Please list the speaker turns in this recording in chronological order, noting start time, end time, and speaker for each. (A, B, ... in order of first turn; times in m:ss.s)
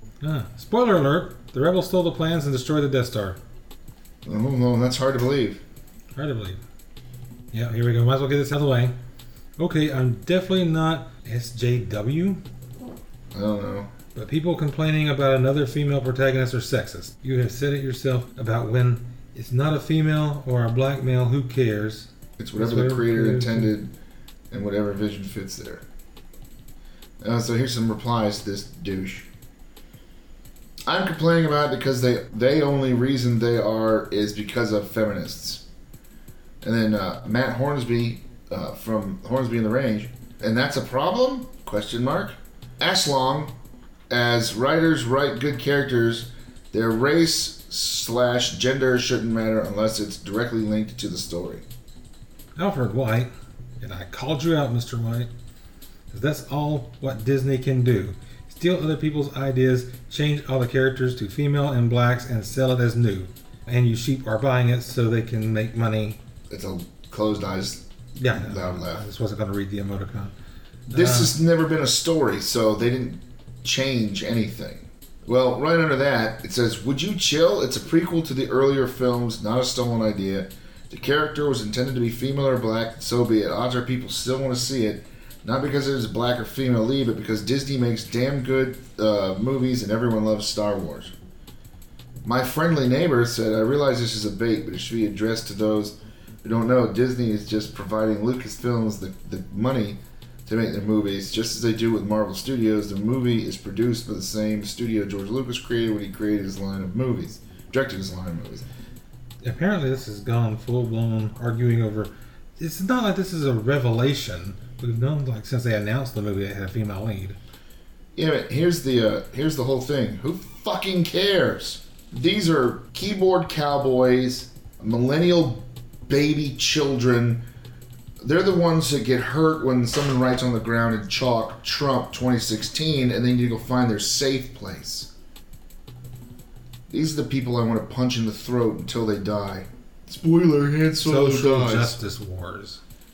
0:00.2-0:03.4 A
0:04.2-0:05.6 B
0:06.2-0:06.6 A
0:07.5-0:09.0 A
0:09.6-0:12.4 A
0:13.3-0:13.9 B
0:14.2-0:23.7 A
0:22.4-0:23.9 B
0:24.5-0:25.8 B
0:27.2-0:29.3 B
0:30.9-0:35.6 B
0:36.6-0:43.6 B
0:44.1-0:51.6 B
0:52.6-0:55.3 A
0:56.1-1:06.2 A
1:06.5-1:09.0 B
1:08.2-1:10.3 A
1:10.9-1:11.4 A
1:10.9-1:31.1 B
1:32.2-1:48.7 B
1:49.4-1:57.4 A
1:58.2-2:07.4 B
2:08.2-2:15.1 B
2:16.9-2:22.0 B
2:21.0-2:22.8 A